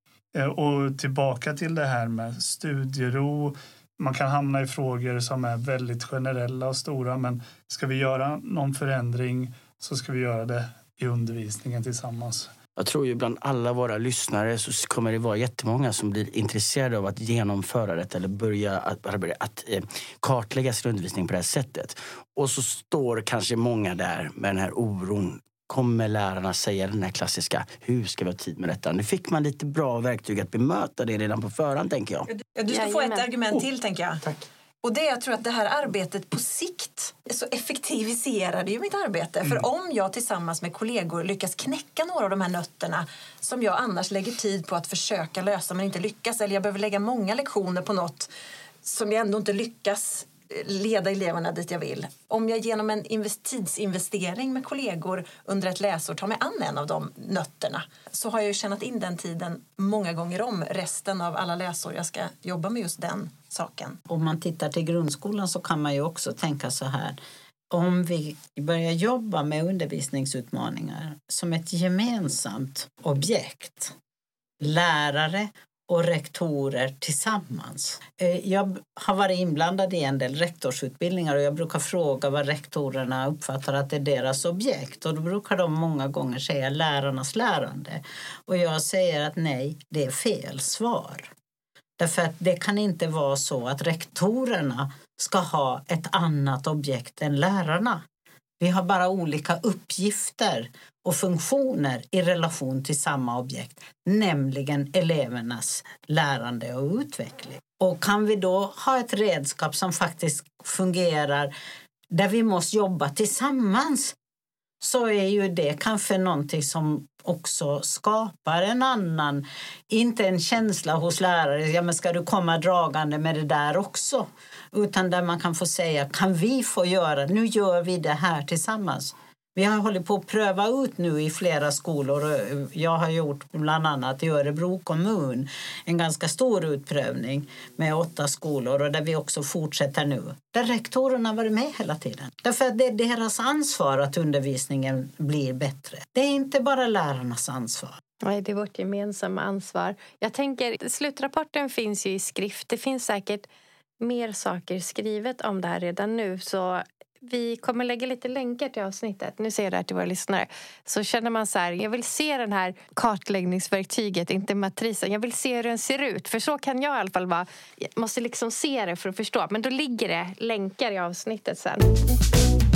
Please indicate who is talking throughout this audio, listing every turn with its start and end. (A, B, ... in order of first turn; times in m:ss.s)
0:00.3-0:12.5 A
0:12.8-0:32.3 B
0:32.5-0:34.2 C
0:32.7-0:33.2 D
0:34.8-0:48.3 C
0:48.8-1:04.0 C
1:04.1-1:07.2 E
1:07.7-1:13.9 E
1:14.6-1:31.3 E
1:32.0-1:38.0 E
1:38.6-1:51.5 E
1:52.1-1:54.2 E
1:54.8-2:28.0 E
2:28.2-2:33.4 D
2:34.0-2:51.8 D